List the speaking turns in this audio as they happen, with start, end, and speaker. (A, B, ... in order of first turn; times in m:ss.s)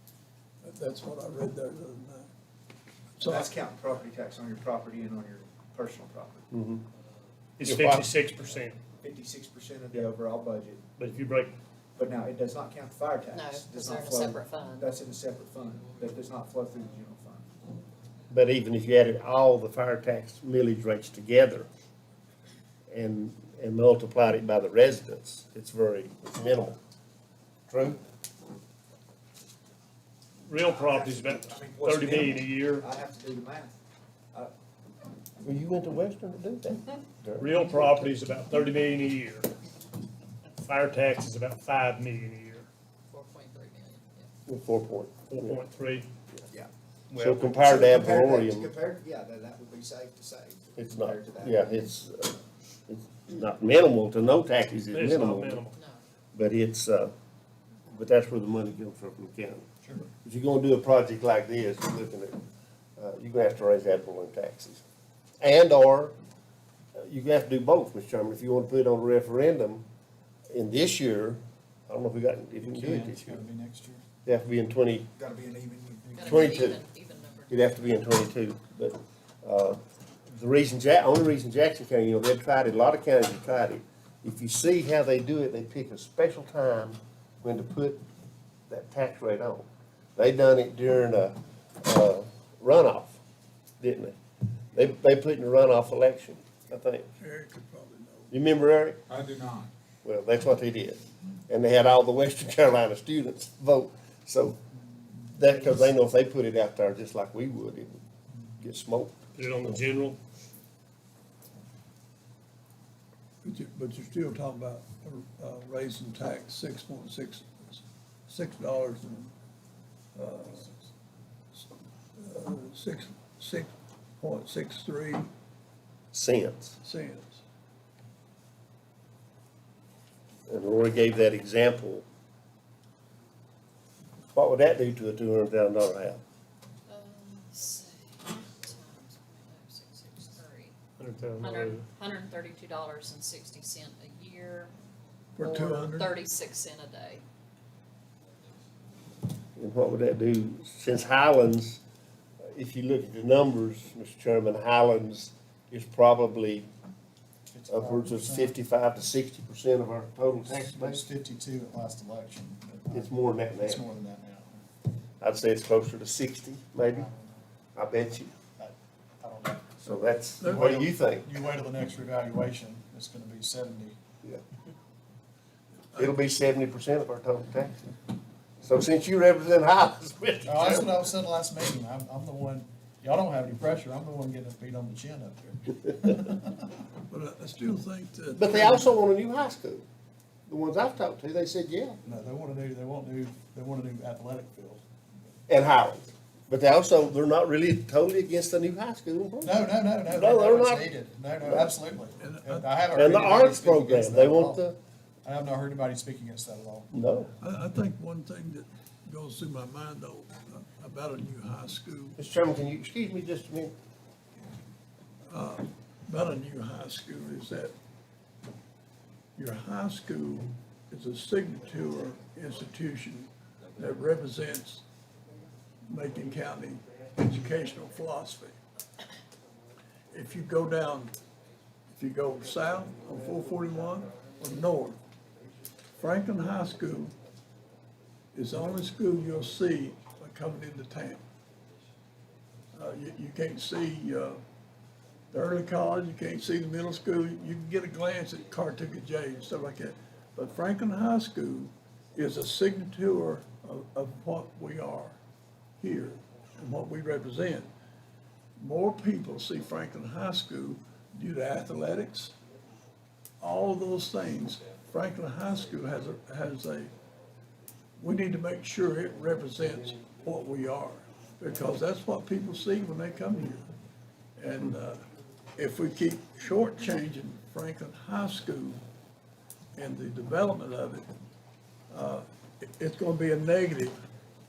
0:00.6-0:02.3 A
0:03.2-0:03.5 A
0:03.2-0:06.5 B
0:06.5-0:06.8 C
0:07.6-0:08.8 D
0:07.6-0:08.0 C
0:09.0-0:10.8 B
0:11.0-0:11.5 D
0:12.0-0:17.5 B
0:13.3-0:14.9 E
0:18.3-0:21.7 C
0:22.9-0:26.8 C
0:27.7-0:28.0 C
0:30.5-0:32.9 D
0:30.6-0:33.8 B
0:35.4-0:38.2 C
0:37.4-0:39.5 D
0:40.6-0:42.7 D
0:43.1-0:44.3 E
0:44.5-0:45.6 C
0:45.3-0:46.1 D
0:47.1-0:47.6 D
0:47.1-0:48.7 C
0:47.6-0:51.7 B
0:50.8-0:55.6 C
0:54.9-0:55.8 D
0:55.7-0:56.0 E
0:56.3-0:57.1 C
0:57.9-0:59.7 C
1:00.2-1:02.4 C
1:03.0-1:04.8 C
1:05.4-1:06.1 C
1:07.0-1:09.8 C
1:10.5-1:13.4 C
1:12.6-1:14.0 F
1:14.2-1:15.0 C
1:15.2-1:16.3 B
1:16.1-1:17.9 E
1:16.2-1:16.8 C
1:17.5-1:28.0 C
1:28.7-1:33.2 C
1:33.8-1:34.2 C
1:34.7-1:37.1 C
1:37.2-1:38.3 A
1:38.3-1:39.0 C
1:39.1-1:39.7 B
1:40.0-1:44.6 C
1:45.2-1:48.0 C
1:48.6-1:49.8 C
1:49.3-1:50.2 D
1:53.4-1:59.3 A
2:00.1-2:00.7 A
2:01.5-2:05.3 A
2:06.1-2:06.8 C
2:06.8-2:07.4 A
2:10.5-2:12.0 C
2:14.3-2:16.2 C
2:16.9-2:20.8 E
2:21.0-2:21.8 D
2:21.4-2:24.7 E
2:25.4-2:26.1 A
2:25.4-2:27.2 E
2:29.6-2:31.8 C
2:32.5-2:36.7 C
2:37.5-2:38.5 F
2:37.7-2:41.0 C
2:40.4-2:44.6 F
2:42.9-2:43.8 C
2:45.2-2:47.1 C
2:46.9-2:47.4 F
2:47.7-2:48.3 C
2:48.6-2:54.0 F
2:49.8-2:51.2 C
2:50.4-2:50.8 A
2:55.9-2:57.9 C
2:58.6-3:01.1 C
3:00.4-3:06.8 F
3:07.1-3:09.0 A
3:08.3-3:09.8 C
3:10.5-3:12.0 C
3:12.0-3:14.8 F
3:15.5-3:20.9 C
3:19.4-3:24.6 F
3:22.2-3:22.7 A
3:22.9-3:24.8 C
3:25.2-3:26.9 F
3:26.9-3:27.3 C
3:27.4-3:32.2 A
3:32.2-3:33.7 C
3:35.3-3:37.7 A
3:39.4-3:44.8 A
3:45.8-3:48.6 A
3:50.1-3:51.2 A
3:51.9-3:55.0 A
3:56.0-3:57.1 A
3:58.3-4:01.2 A
4:02.7-4:04.4 A
4:05.3-4:15.2 A
4:15.8-4:17.7 A
4:18.6-4:22.3 A
4:23.4-4:26.9 A
4:28.0-4:33.7 A
4:34.4-4:35.0 A
4:35.5-4:38.8 A
4:39.8-4:41.1 A
4:41.9-4:44.0 A